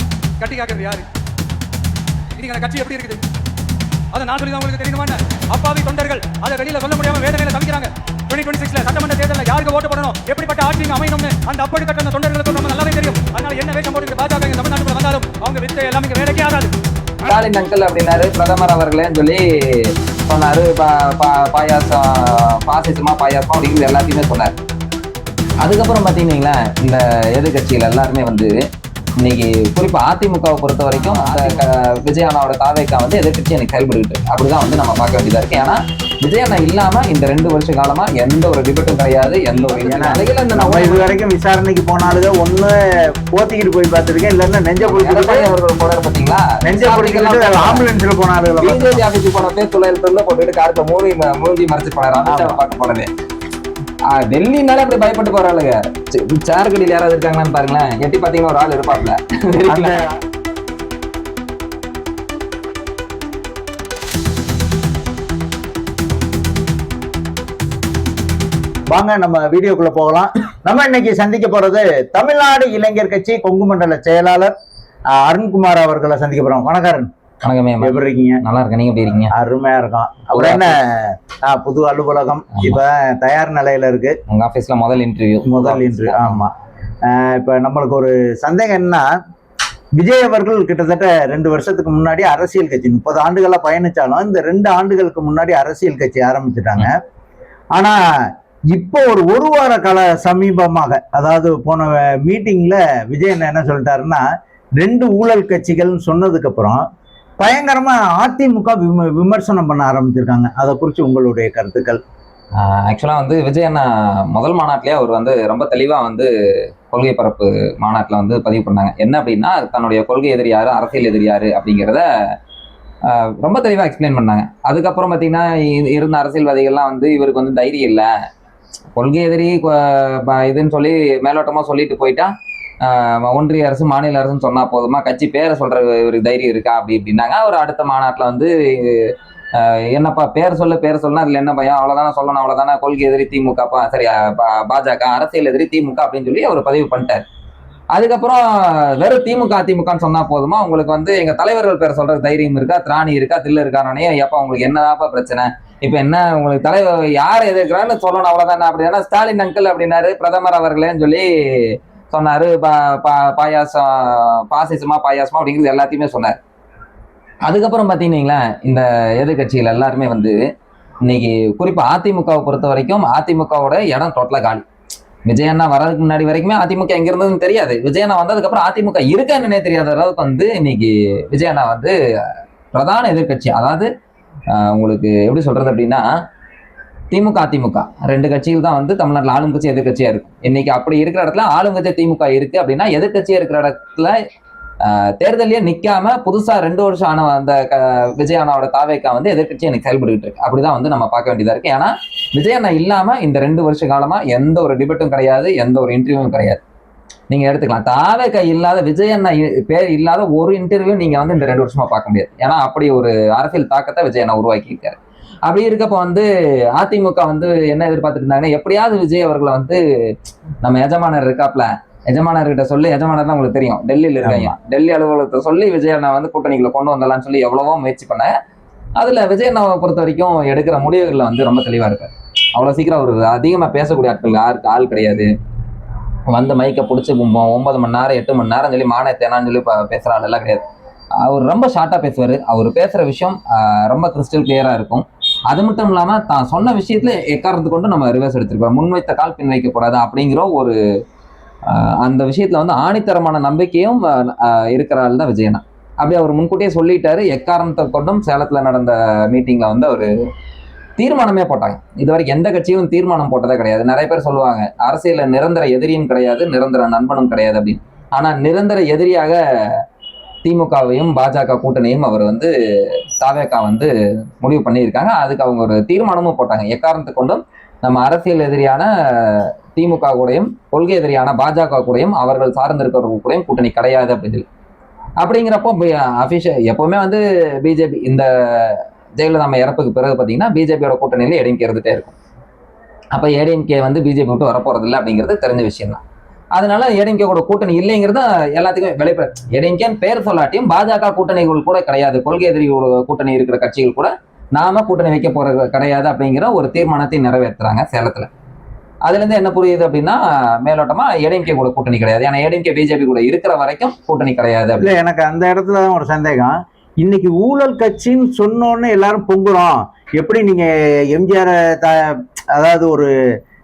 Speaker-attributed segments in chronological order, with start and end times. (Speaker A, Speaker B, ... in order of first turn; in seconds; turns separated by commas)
Speaker A: 0.4-1.1, Speaker A: 2.4-3.2, Speaker A: 4.1-16.8, Speaker B: 17.2-24.5, Speaker B: 25.6-28.6, Speaker B: 29.2-41.2, Speaker C: 39.7-42.8, Speaker C: 43.3-45.5, Speaker B: 44.9-47.9, Speaker C: 46.6-49.0, Speaker B: 48.6-53.1, Speaker C: 52.3-52.6, Speaker B: 54.1-60.0, Speaker C: 59.7-60.1, Speaker C: 68.9-74.5, Speaker C: 75.2-77.1, Speaker B: 77.4-79.3, Speaker C: 77.8-78.4, Speaker C: 79.3-84.2, Speaker B: 80.3-80.8, Speaker B: 82.5-82.8, Speaker B: 84.3-86.4, Speaker C: 85.5-86.5, Speaker C: 87.1-89.0, Speaker C: 90.0-97.0, Speaker C: 98.7-104.2, Speaker C: 104.8-106.8, Speaker C: 107.4-112.0, Speaker B: 112.6-116.3, Speaker B: 116.9-122.0, Speaker B: 123.1-128.1, Speaker B: 128.9-132.3, Speaker B: 132.8-147.2, Speaker B: 147.9-166.3, Speaker B: 167.4-170.4, Speaker B: 171.1-174.6, Speaker B: 175.3-182.0, Speaker B: 182.7-183.9, Speaker B: 184.5-186.1, Speaker B: 187.1-194.1, Speaker B: 194.8-206.6, Speaker B: 207.3-219.8, Speaker B: 220.6-228.3, Speaker C: 224.2-224.5, Speaker B: 229.0-235.3, Speaker B: 236.3-240.6, Speaker B: 241.2-250.8, Speaker B: 251.7-260.1, Speaker B: 261.0-269.4, Speaker B: 270.4-272.5, Speaker B: 273.2-284.4, Speaker B: 285.2-292.2, Speaker B: 293.1-296.0, Speaker B: 296.6-308.3, Speaker B: 309.1-314.9, Speaker C: 314.8-323.1